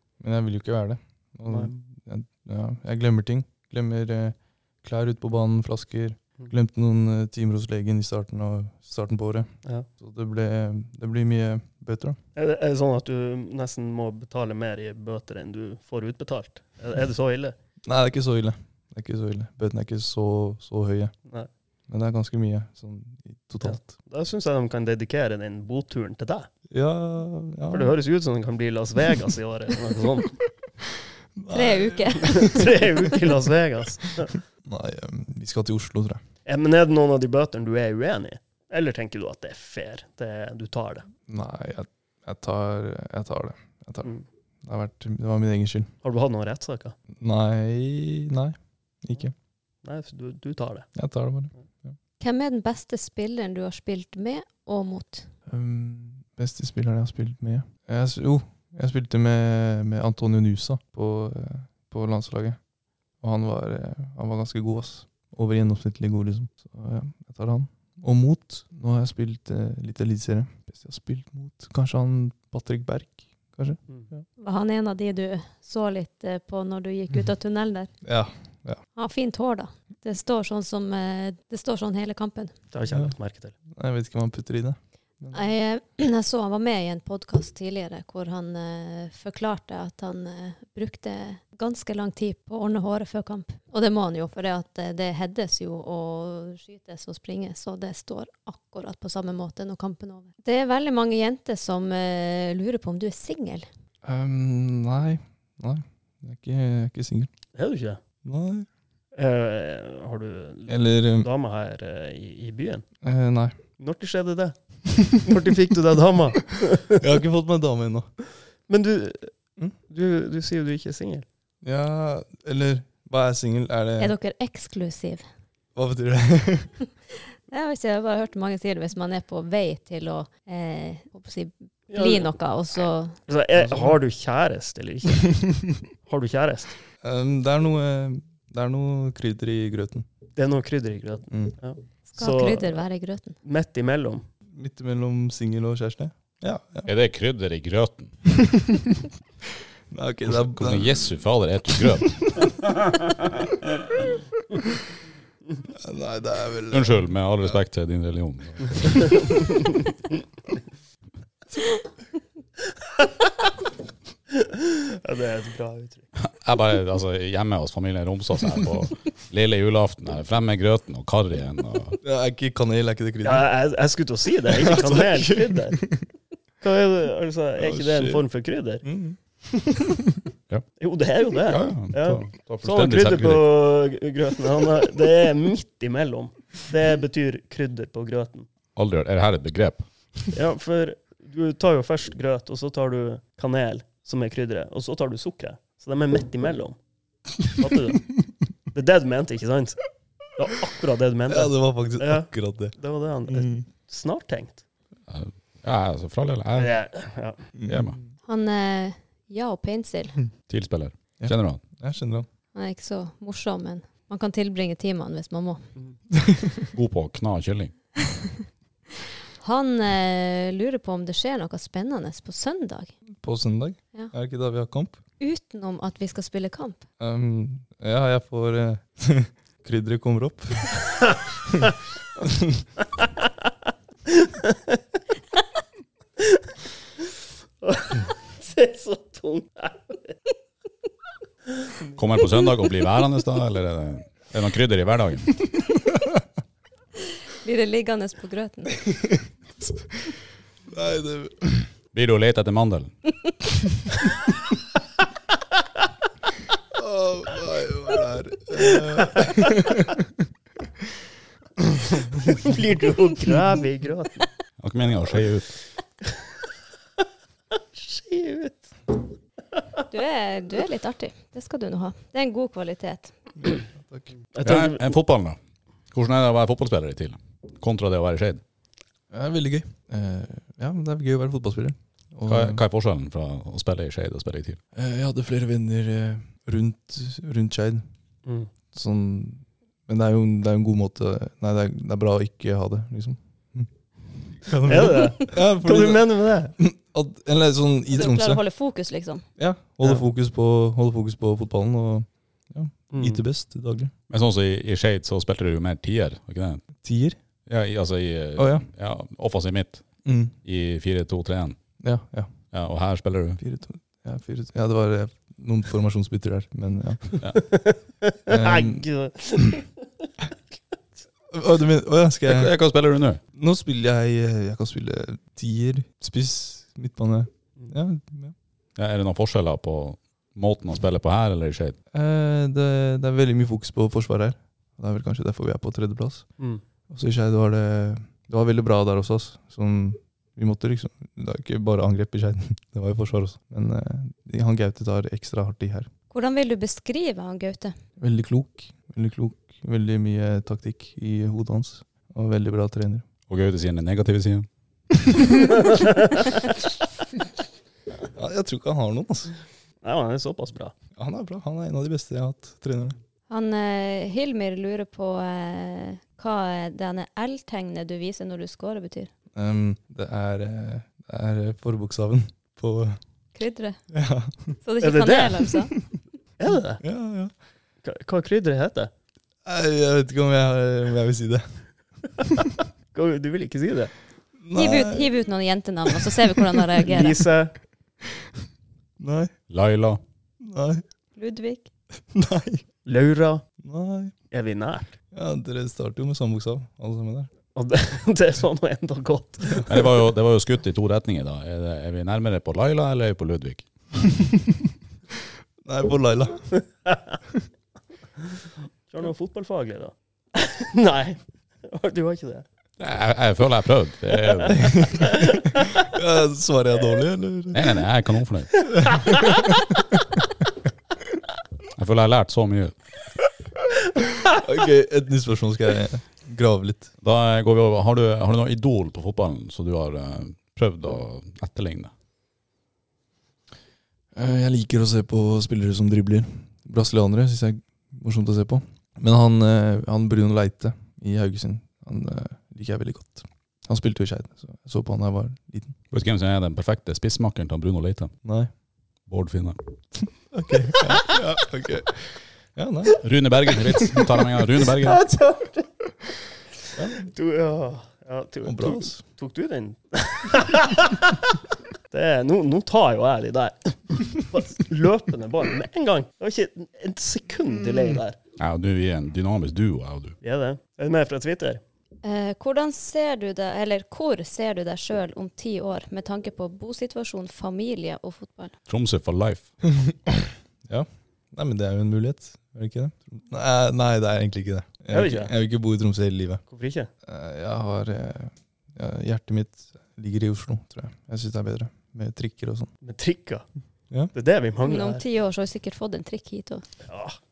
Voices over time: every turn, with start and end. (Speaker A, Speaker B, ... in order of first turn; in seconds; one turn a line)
Speaker A: 0.2-12.2
Speaker B: 12.4-17.6
Speaker A: 17.9-21.1
Speaker A: 21.9-23.9
Speaker B: 23.6-26.5
Speaker A: 26.7-28.0
Speaker B: 27.7-30.4
Speaker A: 31.4-33.1
Speaker C: 31.5-32.6
Speaker B: 32.3-34.4
Speaker A: 34.2-36.2
Speaker B: 36.5-41.1
Speaker A: 41.3-44.1
Speaker A: 44.6-45.9
Speaker B: 46.0-47.0
Speaker A: 47.2-49.3
Speaker B: 49.8-50.9
Speaker A: 51.0-52.0
Speaker C: 52.2-55.3
Speaker A: 55.5-62.6
Speaker A: 63.2-74.2
Speaker C: 74.4-77.9
Speaker A: 78.0-78.8
Speaker C: 79.0-82.5
Speaker B: 82.7-83.5
Speaker A: 82.9-83.1
Speaker A: 83.7-85.4
Speaker C: 85.3-103.7
Speaker A: 104.0-107.3
Speaker B: 107.5-108.0
Speaker A: 108.2-108.7
Speaker B: 109.1-112.9
Speaker A: 110.7-111.3
Speaker A: 113.0-113.6
Speaker B: 113.8-117.0
Speaker A: 116.9-118.1
Speaker B: 118.7-119.3
Speaker B: 119.9-121.2
Speaker A: 121.6-124.1
Speaker C: 124.0-125.3
Speaker A: 125.8-126.8
Speaker C: 127.5-133.2
Speaker B: 131.9-132.3
Speaker B: 133.3-136.8
Speaker A: 133.6-134.0
Speaker A: 137.0-140.1
Speaker B: 140.4-142.8
Speaker C: 142.1-143.4
Speaker B: 143.4-144.2
Speaker A: 144.5-146.9
Speaker D: 146.9-148.1
Speaker A: 148.4-149.0
Speaker A: 149.9-151.2
Speaker D: 150.3-152.6
Speaker A: 151.7-152.5
Speaker A: 155.7-157.1
Speaker D: 156.7-159.5
Speaker B: 164.4-166.1
Speaker D: 166.2-172.0
Speaker A: 172.0-173.5
Speaker B: 173.2-175.8
Speaker A: 174.5-176.1
Speaker B: 176.6-178.8
Speaker A: 177.6-178.2
Speaker A: 178.8-180.2
Speaker B: 180.8-188.5
Speaker D: 181.4-183.4
Speaker D: 188.8-189.9
Speaker B: 190.3-196.8
Speaker B: 197.4-198.2
Speaker B: 198.7-204.6
Speaker A: 201.3-203.7
Speaker D: 205.1-206.7
Speaker B: 206.6-207.4
Speaker A: 207.6-208.1
Speaker D: 207.7-208.0
Speaker C: 208.2-210.2
Speaker D: 210.5-211.6
Speaker A: 211.2-212.3
Speaker C: 212.5-215.7
Speaker A: 216.2-216.6
Speaker D: 216.7-217.7
Speaker C: 219.4-222.9
Speaker A: 223.2-225.0
Speaker C: 225.2-226.8
Speaker A: 227.0-231.7
Speaker A: 232.2-232.6
Speaker B: 234.2-234.6
Speaker B: 237.6-240.2
Speaker D: 242.0-245.4
Speaker C: 247.4-248.8
Speaker A: 248.8-249.7
Speaker A: 250.7-251.7
Speaker D: 251.9-252.9
Speaker A: 256.7-260.1
Speaker B: 258.6-259.5
Speaker B: 262.2-264.3
Speaker D: 264.6-265.5
Speaker B: 267.6-268.7
Speaker C: 269.9-273.2
Speaker A: 273.4-274.1
Speaker B: 274.3-274.9
Speaker D: 274.4-275.4
Speaker D: 275.9-278.4
Speaker A: 279.1-282.6
Speaker D: 282.3-284.6
Speaker A: 284.8-287.9
Speaker A: 288.7-298.4
Speaker B: 294.6-296.5
Speaker C: 297.9-299.2
Speaker A: 299.4-303.9
Speaker B: 302.9-303.2
Speaker D: 304.1-306.6
Speaker A: 306.8-307.2
Speaker D: 307.5-309.9
Speaker A: 308.4-308.7
Speaker A: 310.0-310.4
Speaker D: 310.4-311.6
Speaker A: 311.8-312.3
Speaker D: 312.5-313.4
Speaker A: 313.4-317.3
Speaker B: 317.4-319.7
Speaker A: 318.3-318.9
Speaker A: 321.3-322.6
Speaker D: 322.3-323.2
Speaker A: 323.3-328.4
Speaker D: 328.8-331.8
Speaker A: 331.9-336.3
Speaker A: 336.9-345.9
Speaker C: 346.1-347.8
Speaker A: 348.0-353.1
Speaker D: 353.3-354.5
Speaker B: 355.6-355.9
Speaker A: 358.1-359.3
Speaker B: 359.8-360.7
Speaker A: 361.0-363.0
Speaker C: 363.3-369.1
Speaker A: 369.3-373.0
Speaker C: 373.4-373.8
Speaker A: 373.9-374.6
Speaker C: 374.6-375.7
Speaker B: 374.8-375.6
Speaker B: 376.4-376.8
Speaker A: 376.8-377.3
Speaker B: 377.8-378.9
Speaker A: 379.4-381.6
Speaker B: 382.9-383.9
Speaker A: 384.4-385.1
Speaker C: 384.6-387.2
Speaker B: 386.9-387.6
Speaker A: 389.0-389.3
Speaker D: 389.5-390.0
Speaker A: 390.4-390.8
Speaker C: 391.2-391.7
Speaker A: 392.1-392.6
Speaker B: 392.9-393.5
Speaker A: 393.6-394.1
Speaker B: 394.3-394.9
Speaker A: 395.1-397.3
Speaker B: 397.6-399.9
Speaker D: 399.6-403.7
Speaker A: 404.0-404.7
Speaker A: 405.6-406.6
Speaker B: 406.9-407.1
Speaker B: 408.9-412.4
Speaker D: 412.8-415.2
Speaker A: 414.4-417.8
Speaker B: 415.2-415.4
Speaker D: 417.5-419.1
Speaker A: 418.8-419.8
Speaker D: 421.7-422.7
Speaker A: 424.3-426.9
Speaker D: 427.0-431.9
Speaker A: 434.1-445.8
Speaker D: 445.9-448.1
Speaker A: 448.2-448.5
Speaker D: 449.1-449.6
Speaker A: 450.3-453.0
Speaker D: 453.0-455.1
Speaker B: 454.8-455.7
Speaker A: 456.8-457.1
Speaker B: 457.0-461.4
Speaker A: 458.4-459.0
Speaker B: 461.9-468.2
Speaker D: 468.4-470.2
Speaker B: 470.2-471.6
Speaker C: 472.0-478.5
Speaker D: 478.7-479.5
Speaker A: 480.6-486.4
Speaker B: 484.9-485.3
Speaker B: 486.5-486.9
Speaker A: 487.0-492.7
Speaker B: 492.8-493.5
Speaker B: 494.1-495.0
Speaker C: 494.6-496.7
Speaker B: 496.9-497.2